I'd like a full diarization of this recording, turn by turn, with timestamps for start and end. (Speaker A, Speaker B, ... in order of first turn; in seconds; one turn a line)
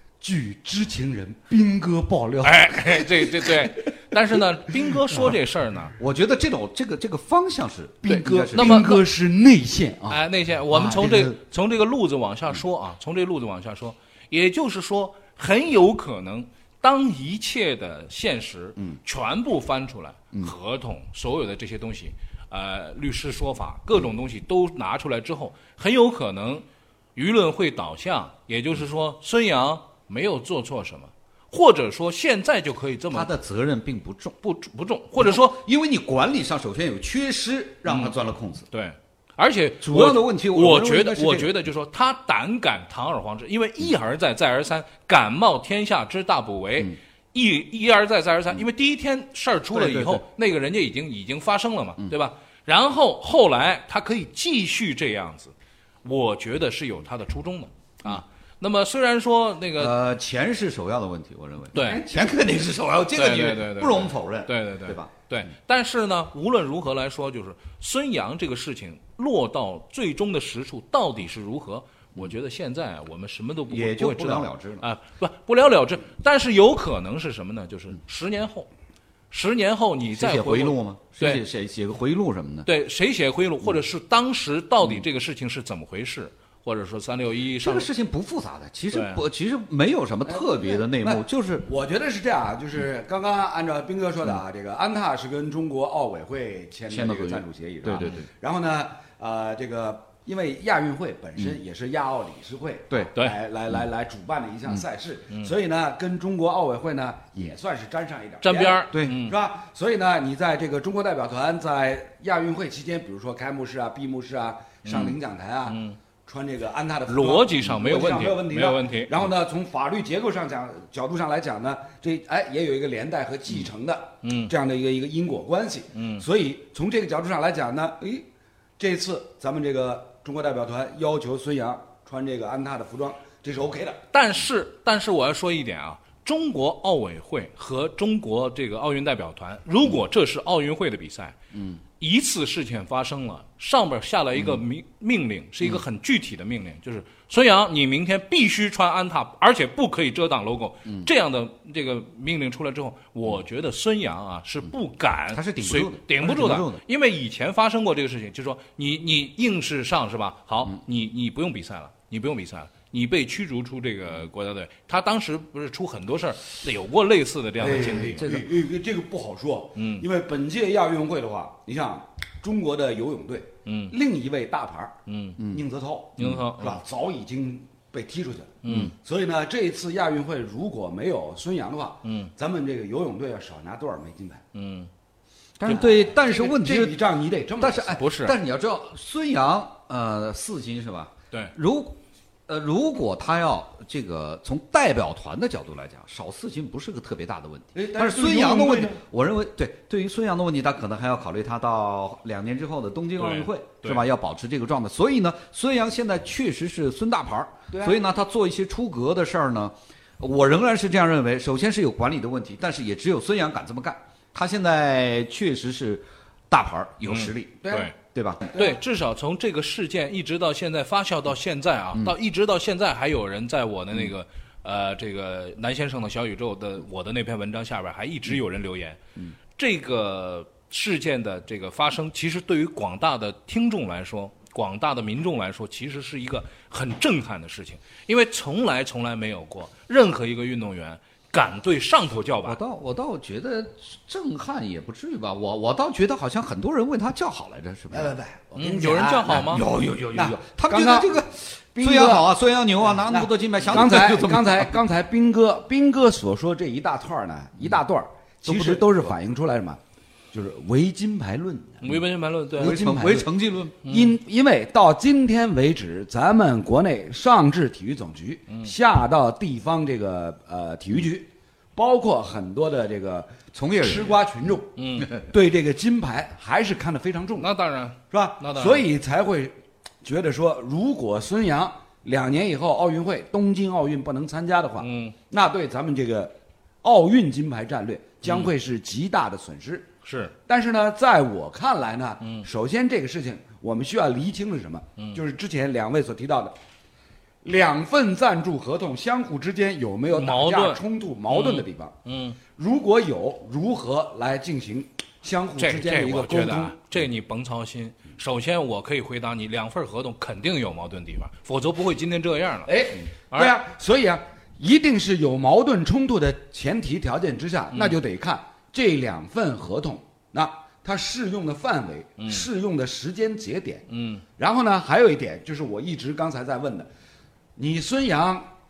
Speaker A: 0.2-3.6
Speaker B: 2.4-5.9
Speaker C: 6.0-9.0
Speaker A: 8.0-11.3
Speaker B: 8.1-9.0
Speaker B: 10.1-26.6
Speaker B: 27.2-33.3
Speaker C: 33.1-34.4
Speaker B: 34.4-35.6
Speaker C: 35.2-38.7
Speaker B: 37.9-38.1
Speaker B: 38.7-55.5
Speaker C: 39.8-41.5
Speaker C: 49.7-50.2
Speaker B: 56.0-60.0
Speaker C: 59.8-65.1
Speaker B: 61.7-62.0
Speaker B: 63.1-78.7
Speaker C: 73.7-74.8
Speaker B: 79.3-81.4
Speaker C: 80.1-82.7
Speaker B: 82.7-87.9
Speaker C: 87.6-91.7
Speaker B: 88.9-89.2
Speaker A: 90.3-128.3
Speaker C: 96.9-98.3
Speaker B: 98.0-98.2
Speaker B: 108.4-109.3
Speaker C: 108.9-109.2
Speaker B: 114.8-115.2
Speaker B: 115.7-116.0
Speaker B: 117.1-119.1
Speaker B: 124.2-124.5
Speaker B: 126.0-126.2
Speaker A: 128.8-134.0
Speaker B: 134.1-141.4
Speaker C: 141.5-141.8
Speaker B: 142.0-168.3
Speaker C: 144.4-144.6
Speaker C: 155.3-156.8
Speaker A: 167.6-174.9
Speaker C: 167.9-168.5
Speaker B: 169.8-170.1
Speaker B: 173.7-173.9
Speaker B: 175.1-175.4
Speaker C: 175.4-175.6
Speaker A: 175.5-184.4
Speaker B: 176.2-176.8
Speaker B: 178.6-178.9
Speaker C: 178.7-178.9
Speaker B: 182.1-182.3
Speaker B: 184.5-184.9
Speaker C: 185.6-187.0
Speaker A: 185.7-188.0
Speaker C: 187.6-218.6
Speaker B: 188.0-188.4
Speaker A: 197.7-199.0
Speaker B: 203.2-204.1
Speaker A: 207.7-208.0
Speaker B: 217.1-217.9
Speaker A: 217.6-217.9
Speaker A: 218.5-218.8
Speaker B: 218.5-229.0
Speaker B: 229.6-242.6
Speaker C: 242.4-248.2
Speaker A: 247.9-251.2
Speaker B: 248.6-249.7
Speaker C: 249.3-254.8
Speaker A: 251.8-252.3
Speaker A: 252.8-259.8
Speaker C: 258.4-259.1
Speaker A: 260.3-261.9
Speaker B: 261.8-262.7
Speaker A: 262.6-263.3
Speaker C: 262.6-263.8
Speaker B: 263.8-264.2
Speaker A: 263.9-277.5
Speaker C: 273.5-274.2
Speaker B: 274.8-275.1
Speaker B: 277.4-278.9
Speaker A: 278.1-289.9
Speaker B: 284.8-285.1
Speaker B: 288.2-288.5
Speaker B: 290.0-290.3
Speaker A: 290.5-296.6
Speaker A: 297.4-301.9
Speaker B: 300.1-302.4
Speaker A: 302.6-306.8
Speaker B: 305.6-313.6
Speaker A: 312.7-323.9
Speaker B: 322.2-322.5
Speaker B: 323.9-324.2
Speaker A: 324.4-326.9
Speaker A: 327.6-328.5